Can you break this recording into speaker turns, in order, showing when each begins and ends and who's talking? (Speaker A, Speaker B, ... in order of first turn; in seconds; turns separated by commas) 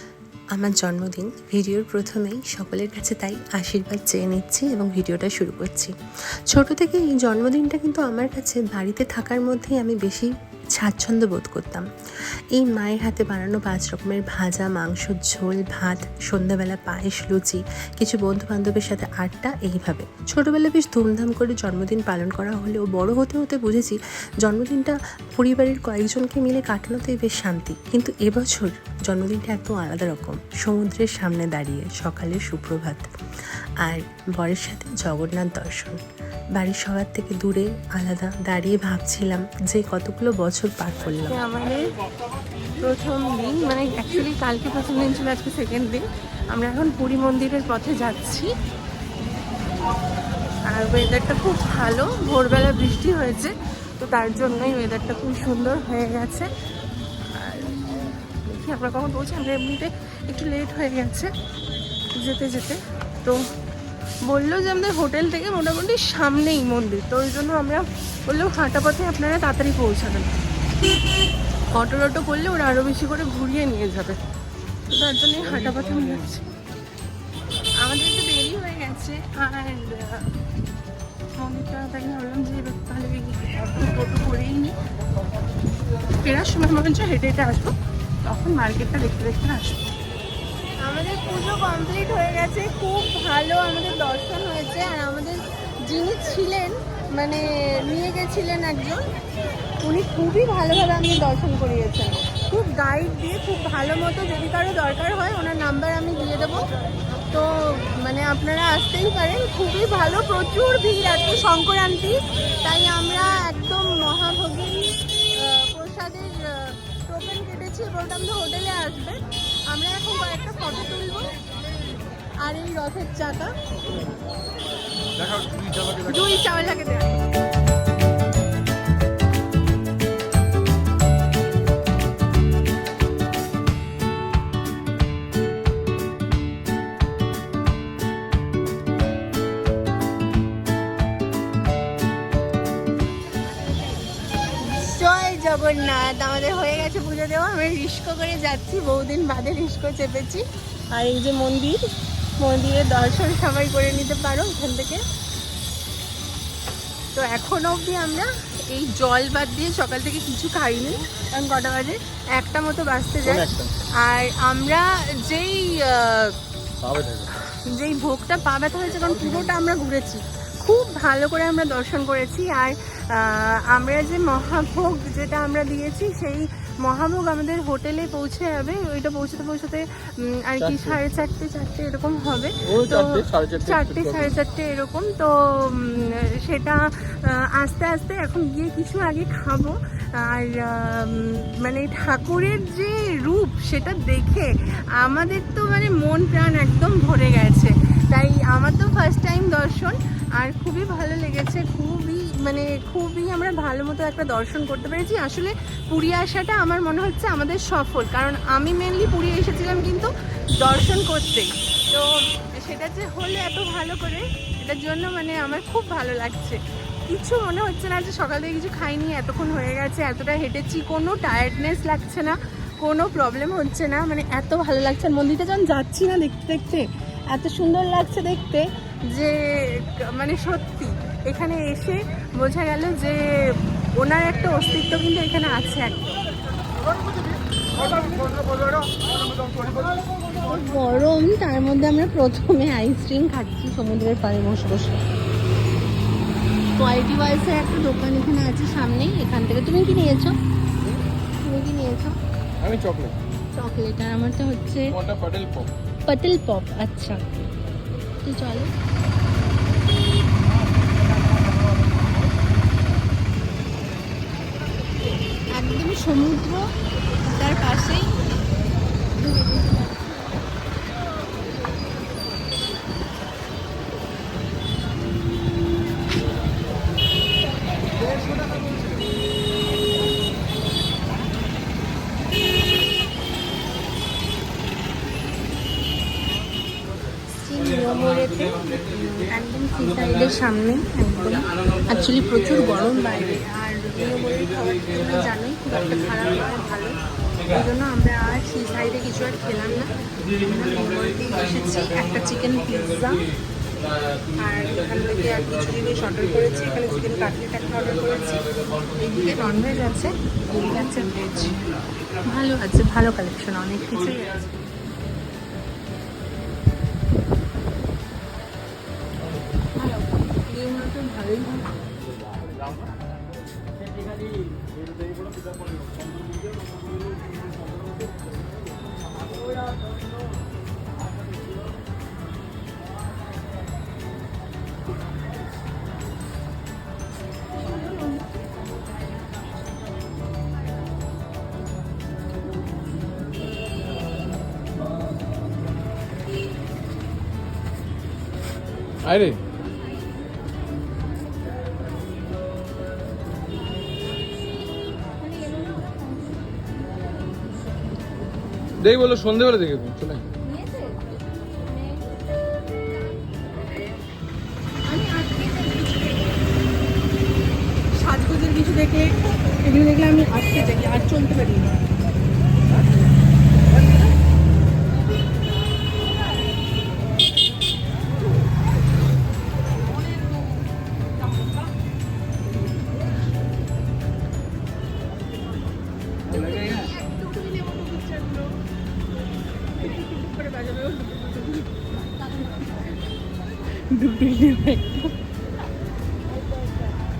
Speaker A: 0.6-5.9, Speaker A: 6.5-11.8, Speaker A: 12.6-33.0, Speaker A: 33.8-36.0, Speaker A: 36.5-41.4, Speaker B: 41.3-41.8, Speaker B: 42.8-46.0, Speaker B: 46.5-48.5, Speaker B: 50.7-56.5, Speaker B: 57.3-61.3, Speaker B: 62.1-63.4, Speaker B: 64.2-70.3, Speaker B: 71.7-74.2, Speaker B: 74.9-76.5, Speaker B: 77.8-80.3, Speaker B: 81.4-84.8, Speaker B: 86.2-87.7, Speaker B: 88.2-89.9, Speaker B: 90.8-99.0, Speaker B: 99.8-106.7, Speaker B: 107.3-121.3, Speaker B: 122.4-123.5, Speaker C: 125.2-126.2, Speaker B: 126.0-127.2, Speaker B: 144.6-151.8, Speaker B: 152.4-155.0, Speaker B: 157.2-166.3, Speaker C: 163.2-163.7, Speaker C: 166.8-167.3, Speaker B: 167.5-210.1, Speaker C: 180.6-181.0, Speaker C: 182.7-184.3, Speaker B: 210.6-236.2, Speaker B: 237.8-238.9, Speaker B: 240.3-245.0, Speaker B: 246.8-250.3, Speaker B: 251.4-252.2, Speaker C: 252.6-253.2, Speaker B: 253.6-254.9, Speaker C: 254.9-255.7, Speaker B: 256.1-257.5, Speaker B: 258.2-258.7, Speaker B: 265.6-266.7, Speaker B: 267.2-268.2, Speaker B: 287.4-303.3, Speaker C: 304.1-304.4, Speaker B: 304.4-311.7, Speaker C: 305.4-306.0, Speaker C: 308.6-309.0, Speaker B: 312.2-314.5, Speaker B: 319.8-321.7, Speaker C: 349.0-349.4, Speaker B: 355.2-356.3, Speaker C: 358.8-360.3, Speaker B: 360.4-362.0, Speaker B: 364.9-366.4, Speaker B: 367.9-371.8, Speaker B: 386.3-388.6, Speaker B: 389.5-392.9, Speaker B: 393.9-395.1